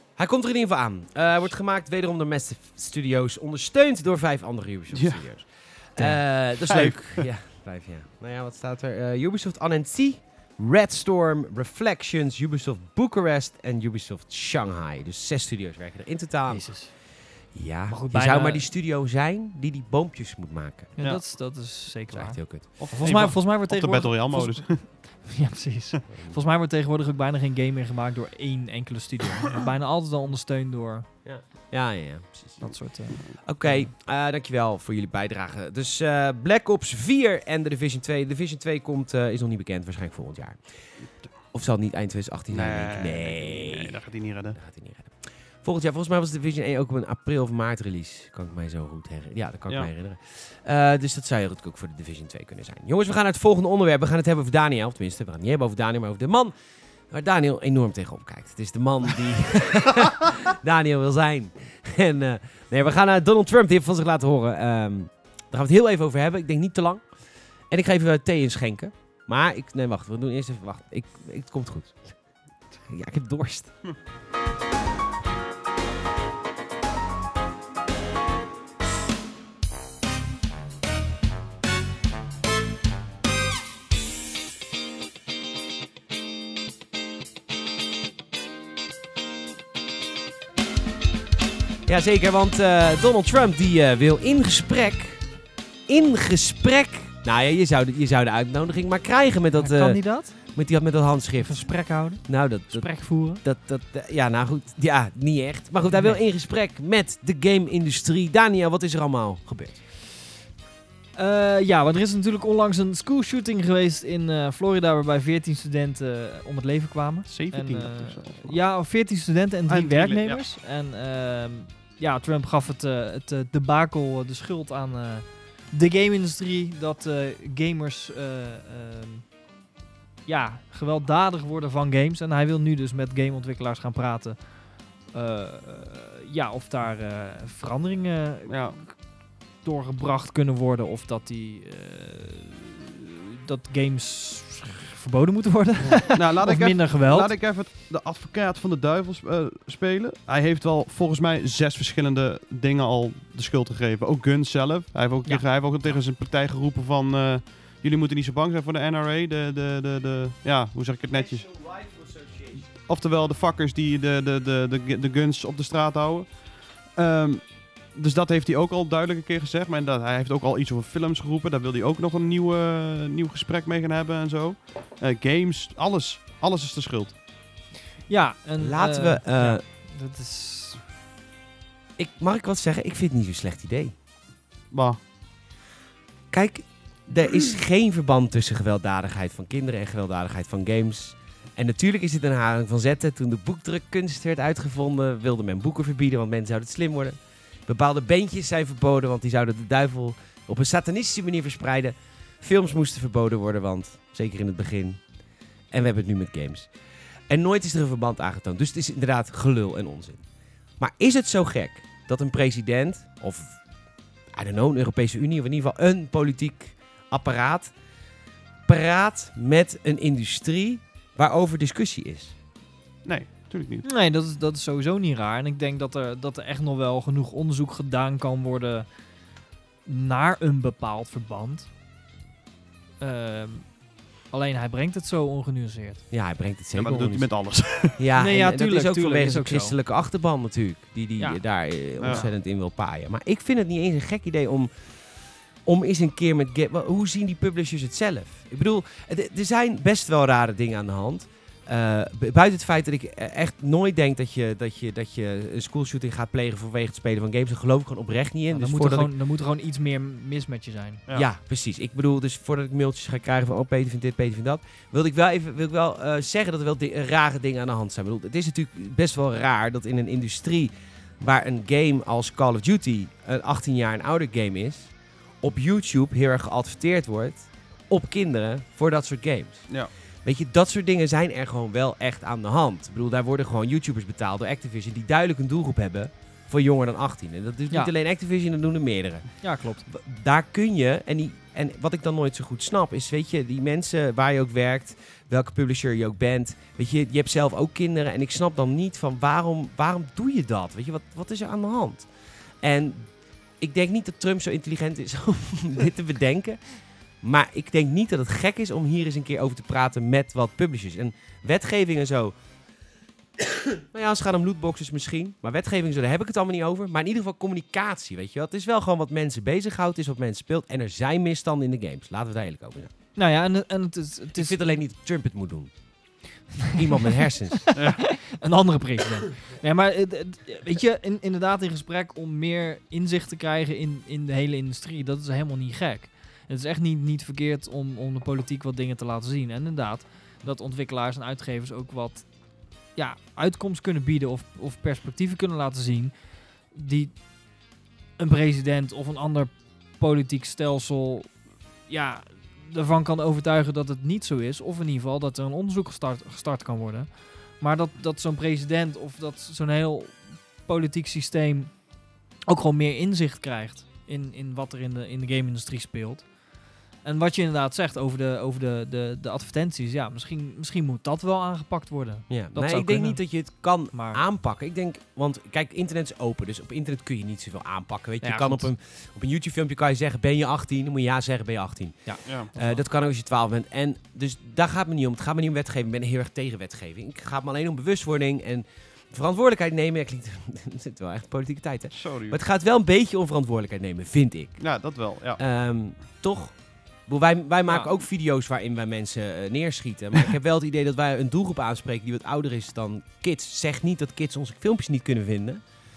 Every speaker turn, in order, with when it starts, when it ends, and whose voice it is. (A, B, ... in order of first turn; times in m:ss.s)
0:00.2-0:21.0 A
0:04.9-0:05.2 B
0:06.0-0:07.3 B
0:16.5-0:17.0 C
0:17.9-0:18.7 C
0:21.0-0:31.1 C
0:22.1-0:22.9 A
0:22.8-0:24.8 B
0:31.2-0:32.7 A
0:32.6-0:33.9 C
0:33.4-0:40.6 A
0:41.5-0:44.0 A
0:42.5-0:44.6 B
0:44.6-0:56.5 A
0:57.1-1:07.1 A
1:07.7-1:12.2 A
1:12.9-1:13.7 A
1:31.9-1:35.3 A
1:35.9-1:49.8 A
1:39.6-1:40.4 C
1:41.4-1:43.4 C
1:45.9-1:46.2 C
1:51.2-2:09.3 C
1:57.3-1:58.6 B
1:59.7-2:00.4 B
2:10.3-2:14.4 C
2:15.1-2:18.9 C
2:18.5-2:18.8 B
2:19.6-2:27.3 C
2:25.9-2:41.5 B
2:41.1-2:42.7 A
2:42.8-2:46.4 B
2:46.9-2:57.2 B
2:58.1-3:00.8 C
2:58.6-2:59.6 A
3:02.0-3:03.9 A
3:04.7-3:05.0 B
3:06.3-3:25.0 A
3:25.7-3:26.7 A
3:27.3-3:30.2 A
3:30.8-3:33.6 A
3:34.3-3:37.7 A
3:38.7-3:42.4 A
3:43.0-3:43.9 B
3:43.8-3:48.9 C
3:49.9-3:51.7 C
3:53.0-3:53.8 C
3:54.3-3:56.0 C
3:56.1-3:57.3 A
3:56.8-3:58.0 B
3:57.8-4:19.1 A
3:58.2-3:59.8 C
4:02.0-4:02.3 B
4:18.5-4:21.0 C
4:21.1-5:02.1 A
4:49.4-4:49.8 C
5:02.6-5:12.3 A
5:13.4-5:22.9 A
5:23.2-5:24.6 C
5:24.4-5:25.7 A
5:26.7-5:42.3 C
5:26.7-5:27.7 A
5:27.8-5:28.0 B
5:43.0-5:46.1 C
5:46.7-5:47.2 C
5:48.2-5:51.3 C
5:51.9-6:01.8 C
6:02.5-6:06.3 C
6:07.0-6:14.2 C
6:12.3-6:34.8 A
6:18.2-6:18.7 C
6:22.1-6:22.8 C
6:22.2-6:22.5 B
6:31.9-6:32.4 B
6:34.6-6:35.4 B
6:35.4-6:45.6 A